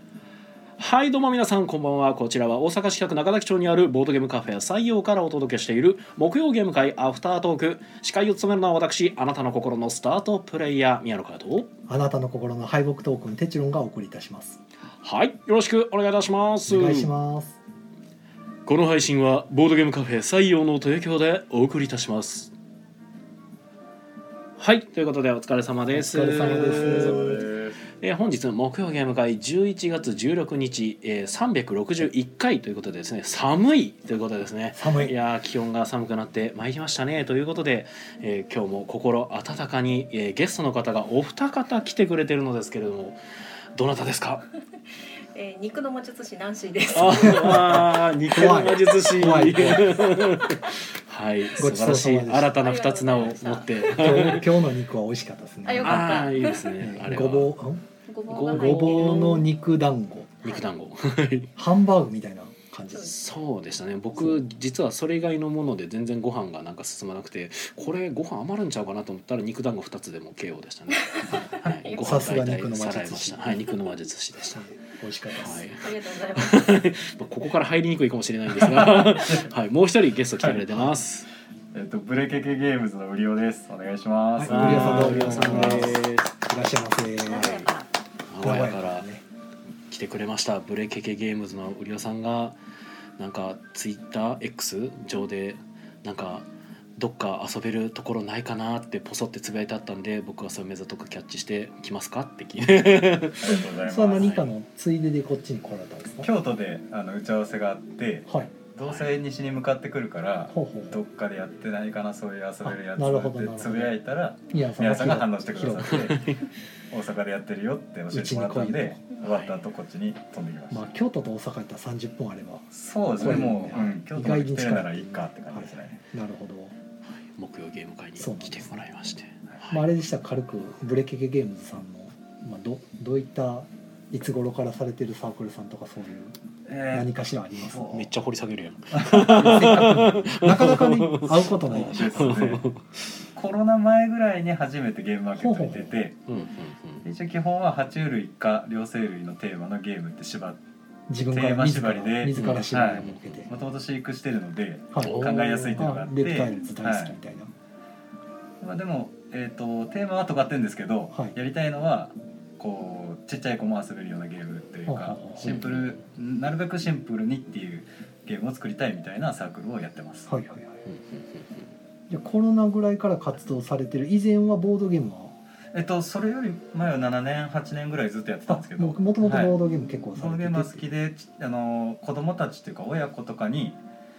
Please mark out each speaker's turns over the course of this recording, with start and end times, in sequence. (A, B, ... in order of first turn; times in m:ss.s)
0:00.8-0:11.7 A
0:11.9-0:14.6 B
0:15.0-0:17.1 A
0:16.7-0:17.6 B
0:18.6-0:22.5 A
0:24.6-0:27.5 A
0:25.9-0:27.4 B
0:26.4-0:27.8 C
0:28.0-0:43.2 A
0:34.7-0:35.1 B
0:43.7-0:44.4 A
0:45.3-0:47.8 D
0:46.9-0:54.6 A
0:47.2-0:50.2 B
0:50.0-0:50.7 D
0:51.6-0:52.6 B
0:52.5-0:54.5 D
0:53.9-0:57.8 B
0:55.6-0:56.8 D
0:55.8-0:57.6 A
0:58.0-0:59.5 D
0:58.3-0:59.4 A
0:58.4-1:00.4 B
1:00.4-1:01.5 A
1:01.6-1:03.1 B
1:02.9-1:03.2 D
1:03.0-1:14.7 A
1:11.2-1:12.3 D
1:11.3-1:13.6 B
1:14.6-1:15.6 B
1:15.4-1:21.3 A
1:15.7-1:16.9 D
1:18.6-1:19.5 C
1:20.4-1:20.8 C
1:21.7-1:26.0 C
1:24.4-1:27.7 B
1:24.4-1:26.3 A
1:27.2-1:27.9 D
1:28.3-1:29.1 A
1:28.4-1:29.2 B
1:29.9-1:32.6 A
1:33.2-1:36.4 A
1:37.0-1:43.6 A
1:43.4-1:44.3 C
1:43.4-1:46.3 B
1:44.2-1:44.5 A
1:46.2-1:56.3 C
1:48.3-1:48.5 B
1:48.8-1:49.1 A
1:50.5-1:51.0 B
1:52.6-1:53.9 B
1:54.5-1:56.2 B
1:55.9-1:56.4 A
1:56.9-2:00.8 C
1:58.1-1:59.0 B
1:59.2-1:59.6 A
2:00.7-2:06.7 B
2:02.7-2:06.0 C
2:07.2-2:09.8 A
2:08.2-2:08.8 B
2:09.7-2:16.4 B
2:16.6-2:18.0 C
2:16.9-2:17.9 B
2:17.9-2:23.0 A
2:19.0-2:20.0 C
2:19.1-2:22.3 B
2:21.6-2:22.7 C
2:23.3-2:26.2 C
2:25.4-2:26.0 B
2:26.3-2:27.0 A
2:27.0-2:30.6 C
2:31.1-2:33.5 B
2:31.3-2:37.2 C
2:32.4-2:33.5 A
2:34.9-2:37.5 B
2:35.0-2:35.9 A
2:38.6-2:50.3 C
2:44.9-2:45.6 B
2:45.4-2:46.0 A
2:50.3-2:50.8 B
2:50.8-2:51.7 A
2:52.1-2:55.3 B
2:55.7-2:59.6 C
2:58.5-3:00.9 B
2:59.6-2:59.9 D
3:00.1-3:03.8 C